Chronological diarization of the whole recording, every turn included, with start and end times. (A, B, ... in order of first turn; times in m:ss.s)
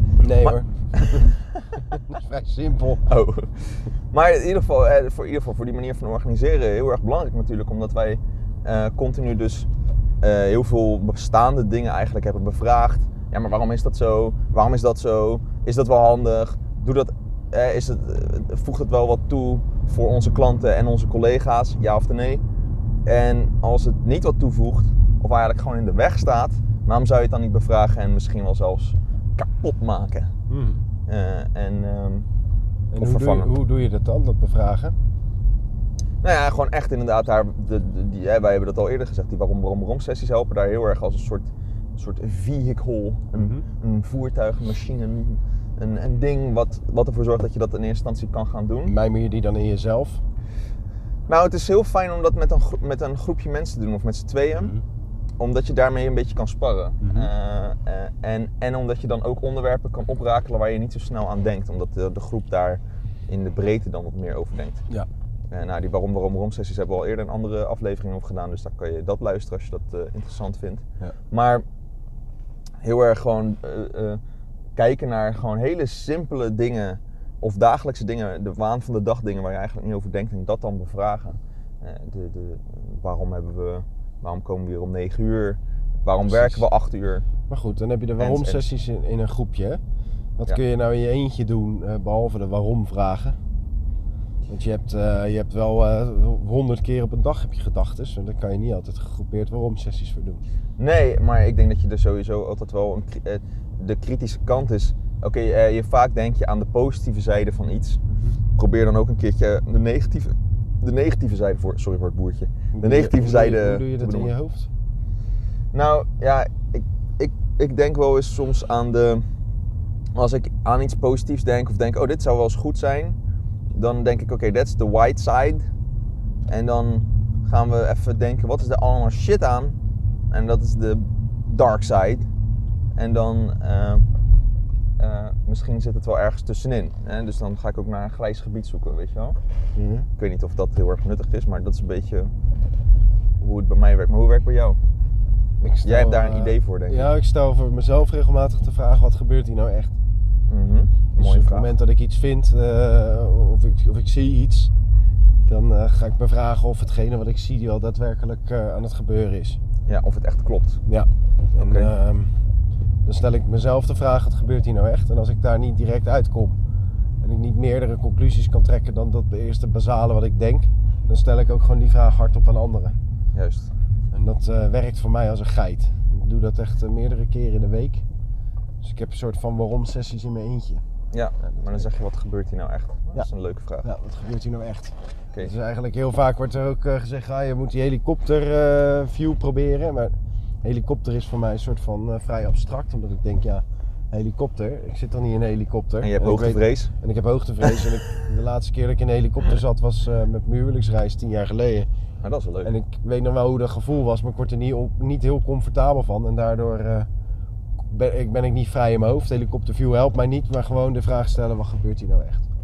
0:00.2-0:01.3 A
0:00.4-0:01.8 B
0:01.8-0:03.0 A
0:03.0-0:09.7 B
0:10.2-0:22.4 B
0:23.0-0:30.3 B
0:30.5-0:30.8 A
0:31.1-0:32.3 B
0:32.9-0:34.9 A
0:33.0-0:33.6 B
0:36.2-0:49.0 B
0:43.3-0:43.6 A
0:48.8-0:50.2 A
0:51.3-0:54.8 B
0:54.5-0:54.8 A
0:55.4-1:04.8 B
0:57.0-0:57.3 A
1:05.5-1:11.6 B
1:12.8-1:14.2 B
1:14.8-1:27.3 B
1:26.2-1:26.7 A
1:27.5-1:29.8 A
1:28.2-1:28.7 B
1:30.4-1:33.4 A
1:34.5-1:40.4 A
1:40.8-1:48.0 B
1:48.6-1:54.3 B
1:52.7-1:54.7 A
1:55.7-1:59.2 B
2:00.2-2:03.2 B
2:03.7-2:05.7 B
2:06.5-2:09.8 B
2:10.3-2:12.3 B
2:13.0-2:14.1 B
2:15.0-2:19.4 B
2:19.8-2:20.1 A
2:20.2-2:22.3 B
2:23.4-2:24.8 B
2:25.6-2:29.9 A
2:25.7-2:27.1 B
2:30.5-2:31.7 B
2:31.2-2:34.7 A
2:35.4-2:39.6 A
2:39.8-2:40.8 B
2:40.9-2:42.3 A
2:41.5-2:41.9 B
2:43.0-2:46.6 A
2:47.2-2:52.9 A
2:53.3-2:53.7 B
2:54.1-2:58.0 A
2:58.8-3:00.8 A
3:01.1-3:03.9 B
3:01.4-3:01.9 A
3:03.8-3:21.9 A
3:16.0-3:16.9 B
3:22.2-3:22.7 B
3:22.6-3:27.1 A
3:27.9-3:32.4 A